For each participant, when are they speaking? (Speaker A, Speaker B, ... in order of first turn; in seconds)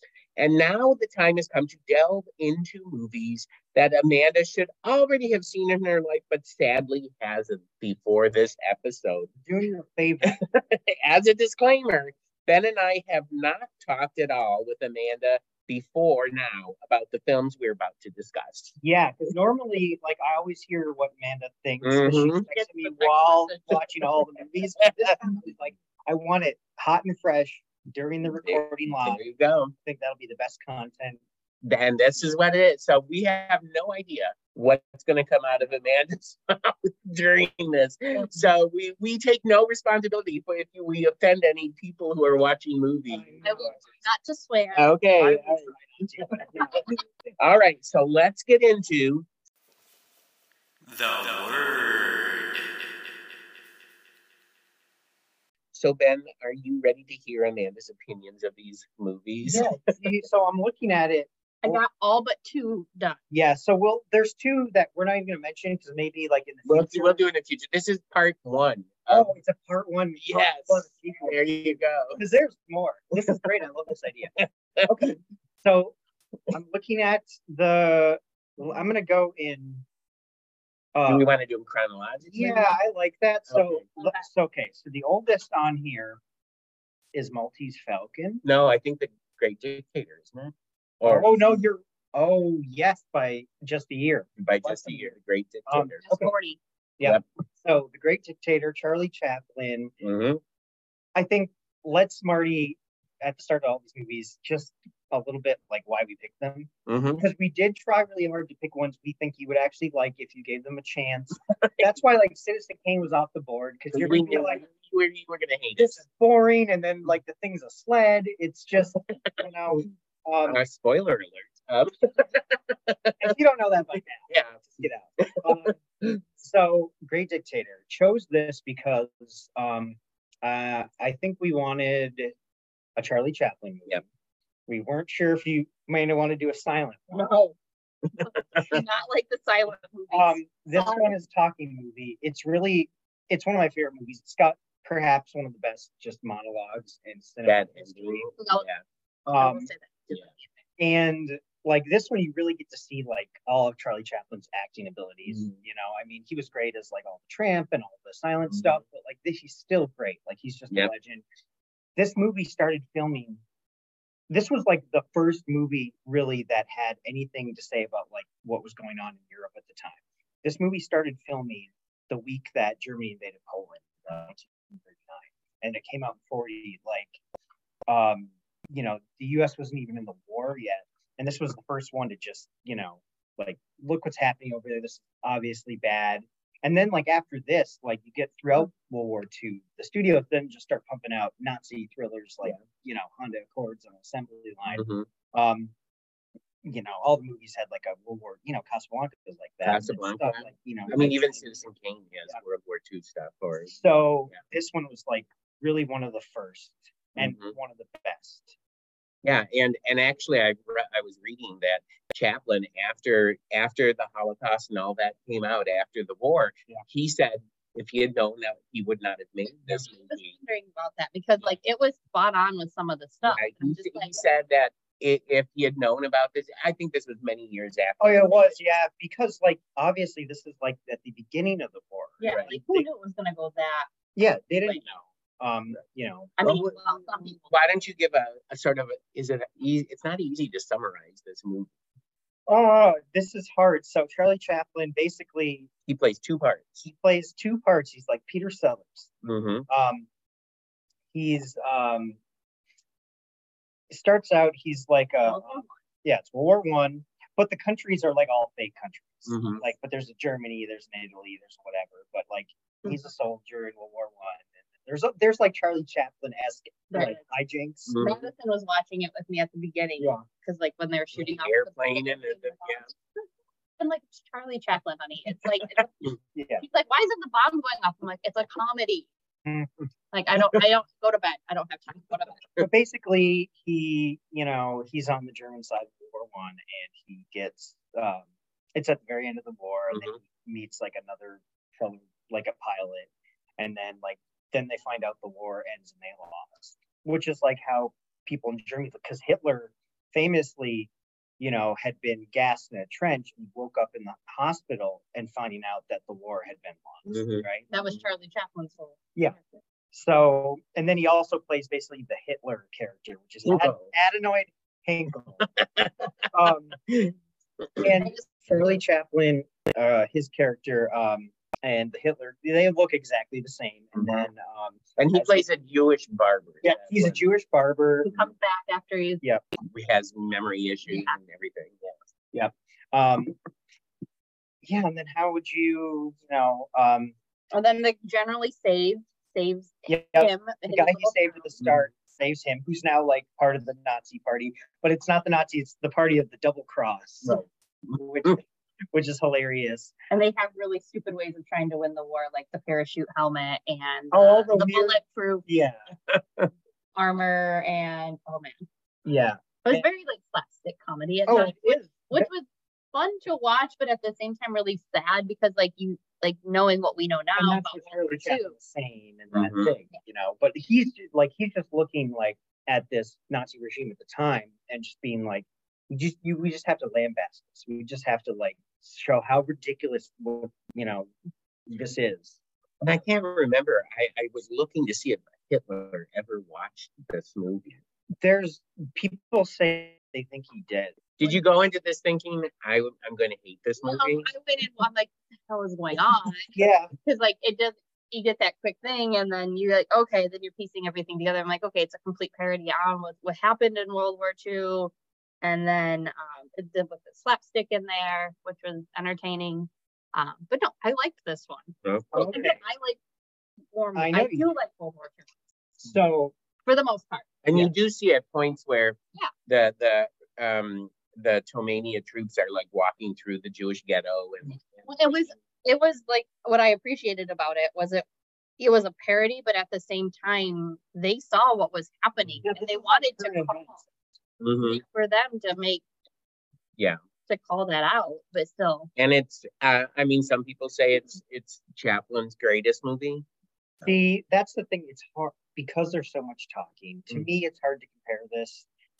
Speaker A: 0.4-9.3, 10.2-18.7, 21.8-25.1, 28.4-29.7, 31.6-43.5, 44.7-49.3, 50.9-52.6, 55.7-59.7, 66.7-69.3, 70.2-72.2, 74.4-75.1, 81.1-82.7, 83.5-83.8, 88.4-91.5, 94.4-96.0, 100.0-100.4, 106.9-107.2, 111.5-111.9, 113.9-116.0, 119.0-119.3, 120.5-123.3, 124.3-126.2, 147.4-148.8, 158.5-158.8, 194.7-195.1, 199.6-203.7, 207.2-207.5, 209.2-220.3, 223.2-228.6, 232.2-232.5, 237.3-241.7, 245.9-246.8, 249.2-249.7, 259.3-259.6, 267.9-268.2, 271.1-272.9, 307.1-308.0, 313.4-313.9, 315.4-316.1, 316.9-317.9, 324.0-324.2, 325.0-327.2, 329.7-331.9, 347.2-348.4, 356.1-356.5, 369.3-369.7, 382.8-387.6, 391.2-394.3, 411.8-412.4, 417.4-424.9, 434.4-434.8, 439.0-443.2
Speaker B: 9.4-10.4, 18.8-29.2, 29.8-31.2, 43.1-43.8, 45.2-46.9, 59.4-61.8, 63.3-67.2, 69.1-71.4, 72.1-76.0, 76.5-79.8, 80.9-81.3, 82.3-86.2, 87.1-88.4, 91.0-95.1, 95.7-96.3, 97.0-99.9, 101.1-114.6, 115.8-120.6, 123.2-125.8, 126.4-132.3, 132.9-134.0, 134.7-137.3, 140.1-148.3, 149.2-149.7, 150.8-161.2, 161.9-163.4, 164.3-177.2, 177.9-195.7, 196.6-201.4, 203.7-208.6, 228.0-232.8, 234.2-234.8, 235.4-236.6, 242.5-245.7, 246.8-249.1, 249.7-250.1, 251.1-252.2, 253.9-268.0, 270.0-270.2, 276.3-276.6, 282.6-307.7, 309.9-315.5, 316.3-316.8, 317.8-325.4, 326.6-328.1, 332.3-333.3, 334.6-337.1, 339.9-349.9, 354.1-355.8, 359.0-359.8, 361.3-362.3, 367.4-381.1, 381.7-382.4, 388.2-391.3, 396.5-396.9, 412.1-412.6, 413.9-414.5, 415.8-416.3, 432.4-433.9, 443.8-448.6
Speaker C: 43.4-44.9, 61.6-63.2, 84.0-84.2, 96.0-96.6, 137.1-137.5, 138.2-141.1, 148.4-148.7, 149.4-150.4, 219.7-224.2, 232.2-233.9, 236.4-237.4, 255.2-255.7, 266.9-267.2, 268.0-272.9, 273.8-275.9, 276.6-279.1, 280.1-282.4, 307.7-309.0, 318.0-318.2, 328.0-329.2, 330.9-331.2, 337.5-341.4, 350.1-355.4, 356.9-358.6, 359.6-368.5, 393.8-413.0, 413.7-415.3, 416.6-417.3, 424.8-428.1, 428.6-433.8, 434.7-435.8, 437.2-438.9